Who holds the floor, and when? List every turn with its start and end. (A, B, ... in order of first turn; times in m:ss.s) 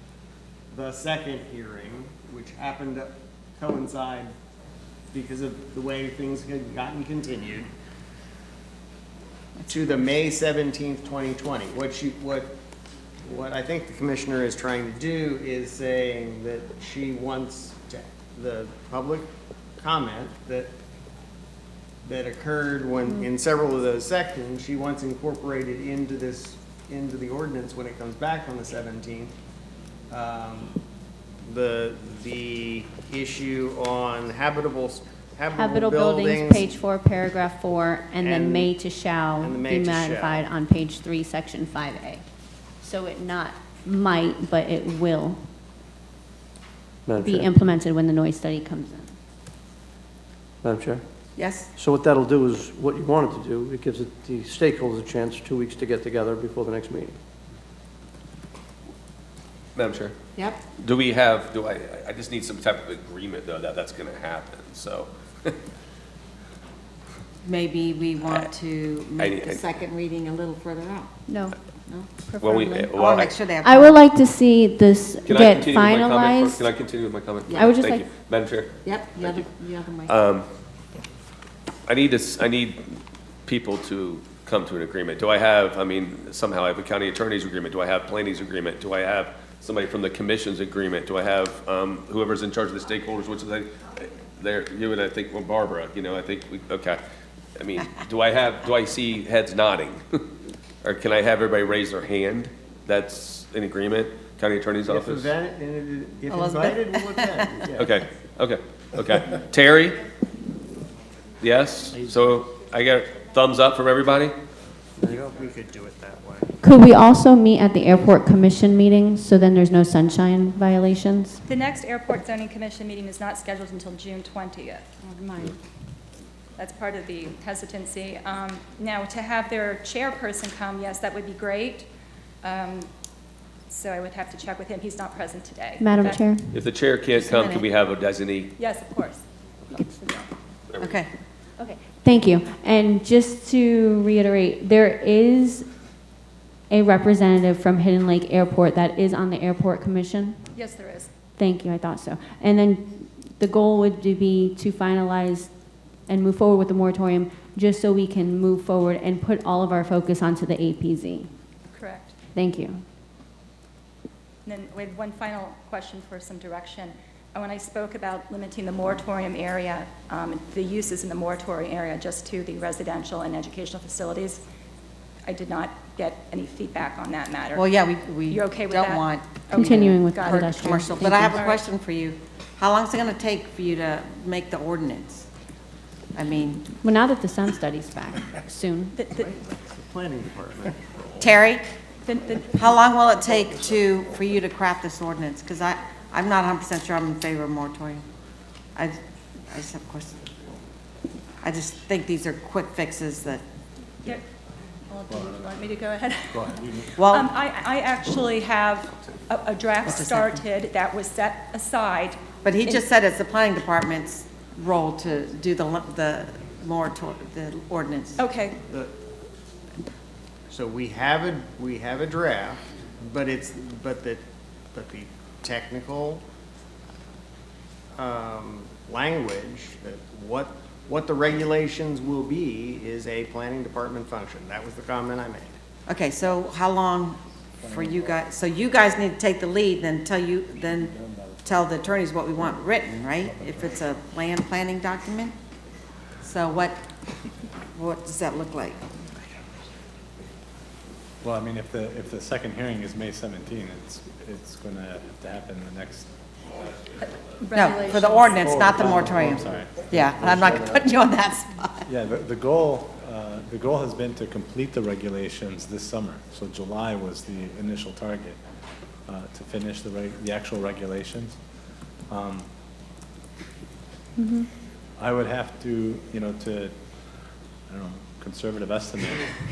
0:00.7-0:04.3 A
0:05.1-0:07.7 A
0:09.7-0:12.5 A
0:13.2-0:19.3 A
0:19.8-0:20.7 A
0:22.0-0:29.3 A
0:30.1-0:30.8 A
0:31.4-0:36.7 A
0:35.5-0:42.2 B
0:38.2-0:38.7 A
0:39.4-0:40.5 A
0:42.8-0:45.4 B
0:47.0-0:47.5 C
0:47.2-0:49.1 B
0:50.6-0:51.0 C
0:51.4-0:51.7 D
0:51.8-0:57.2 C
0:59.7-1:00.2 E
1:00.8-1:05.6 E
1:07.4-1:11.1 D
1:09.2-1:09.6 E
1:11.3-1:11.6 B
1:12.1-1:13.0 B
1:12.4-1:13.4 E
1:12.9-1:14.0 D
1:13.6-1:16.7 B
1:15.2-1:19.5 E
1:17.5-1:17.7 D
1:17.5-1:18.1 B
1:18.8-1:20.2 D
1:20.0-1:20.5 E
1:21.9-1:37.0 E
1:37.6-1:40.2 E
1:40.8-1:45.3 E
1:44.8-1:47.9 A
1:46.3-1:47.5 D
1:47.7-1:50.0 E
1:51.4-1:54.4 E
1:55.0-1:56.5 A
1:56.6-2:01.4 B
2:01.4-2:05.0 F
2:05.0-2:05.6 B
2:06.6-2:11.9 F
2:12.4-2:12.9 F
2:13.7-2:16.3 F
2:15.8-2:16.6 B
2:16.5-2:18.5 E
2:17.1-2:17.6 D
2:18.6-2:20.3 F
2:20.7-2:21.0 E
2:20.8-2:21.1 D
2:21.6-2:25.7 B
2:26.7-2:30.5 B
2:30.5-2:31.1 F
2:31.3-2:35.5 B
2:36.0-2:41.3 B
2:41.7-2:42.1 F
2:42.3-2:42.8 B
2:44.4-2:54.4 F
2:55.2-2:57.7 F
2:57.5-3:05.3 D
2:58.3-3:00.6 F
2:59.5-3:01.4 B
3:01.3-3:01.7 F
3:06.1-3:06.6 D
3:06.8-3:09.0 B
3:08.9-3:09.3 F
3:09.1-3:10.8 A
3:11.2-3:11.6 D
3:12.0-3:12.8 F
3:12.5-3:18.0 D
3:18.7-3:20.2 D
3:21.4-3:23.4 D
3:24.9-3:32.2 F
3:25.1-3:25.5 G
3:26.3-3:27.0 G
3:27.0-3:27.3 D
3:29.8-3:30.4 D
3:32.4-3:38.3 D
3:38.2-3:38.6 F
3:38.7-3:38.9 A
3:40.5-3:46.2 A
3:48.0-3:55.6 A
3:55.9-4:00.9 D
3:57.6-3:58.2 G
4:00.7-4:01.6 G
4:01.4-4:05.3 D
4:03.2-4:03.8 G
4:06.2-4:06.8 D
4:07.7-4:08.8 D
4:11.2-4:16.1 G
4:17.0-4:18.0 F
4:17.5-4:21.9 D
4:18.1-4:20.8 G
4:21.8-4:28.4 G
4:29.1-4:31.4 G
4:32.1-4:32.5 G
4:34.2-4:34.5 B
4:35.0-4:36.8 G
4:37.7-4:39.4 G